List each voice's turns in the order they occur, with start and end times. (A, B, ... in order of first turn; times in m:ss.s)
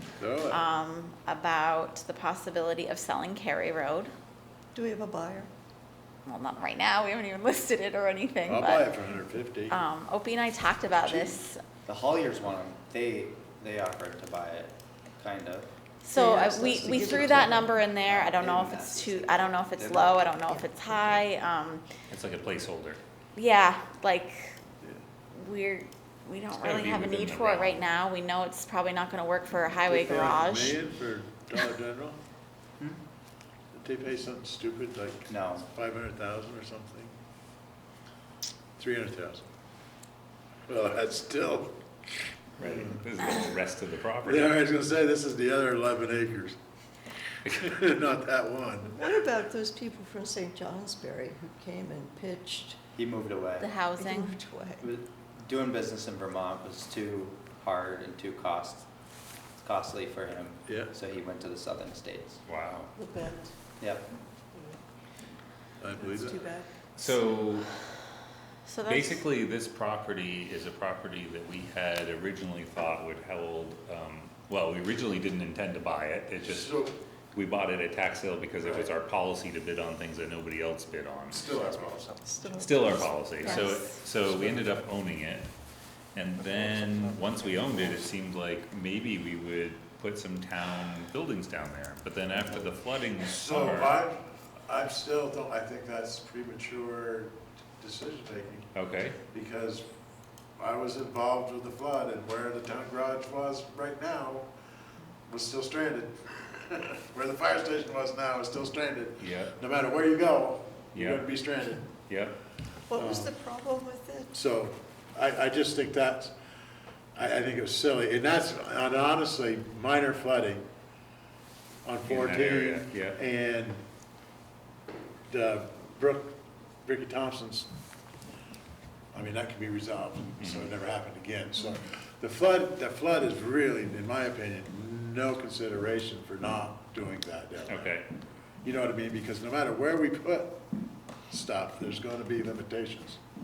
0:00.2-0:00.6 A
0:00.4-0:04.1 B
0:04.7-0:05.5 C
0:06.2-0:09.0 B
0:08.5-0:09.8 A
0:09.7-0:11.6 B
0:11.0-0:11.4 A
0:11.8-0:15.7 D
0:16.0-0:21.8 B
0:16.1-0:17.8 C
0:16.9-0:20.4 D
0:20.6-0:21.2 C
0:22.1-0:23.0 E
0:23.3-0:24.6 B
0:25.3-0:30.8 B
0:26.6-0:27.8 E
0:29.9-0:32.2 A
0:33.7-0:37.1 A
0:35.3-0:35.6 D
0:38.8-0:39.4 A
0:40.7-0:41.8 A
0:42.6-0:44.5 E
0:42.6-0:43.0 A
0:44.2-0:46.6 A
0:47.6-0:49.0 A
0:48.9-0:52.8 C
0:52.9-0:53.7 D
0:53.6-0:54.4 B
0:54.0-0:54.9 C
0:54.8-0:58.9 D
0:59.5-1:02.4 D
1:00.7-1:00.9 A
1:02.4-1:02.9 E
1:02.9-1:03.8 C
1:03.8-1:04.1 D
1:04.5-1:04.8 C
1:05.8-1:06.5 A
1:06.0-1:06.7 C
1:07.0-1:07.7 E
1:07.0-1:07.4 B
1:08.6-1:09.2 B
1:08.8-1:16.8 E
1:16.4-1:16.9 A
1:17.3-1:25.5 E
1:21.3-1:22.3 A
1:22.3-1:23.5 C
1:23.4-1:24.0 B
1:24.2-1:24.9 A
1:26.1-1:34.0 E
1:26.4-1:28.1 A
1:32.5-1:38.7 A
1:38.7-1:39.2 E
1:39.3-1:39.9 A
1:40.6-1:44.5 A
1:45.3-1:51.9 A
1:49.2-1:49.5 E
1:50.9-1:52.4 E
1:52.9-1:54.3 C
1:53.0-1:53.3 A
1:54.3-1:56.3 A
1:57.1-2:00.7 A
2:01.8-2:03.8 A
2:02.0-2:03.2 E
2:05.3-2:07.7 A
2:09.1-2:18.0 A
2:10.4-2:10.7 E
2:17.7-2:18.1 E
2:18.6-2:20.6 A
2:21.3-2:23.2 A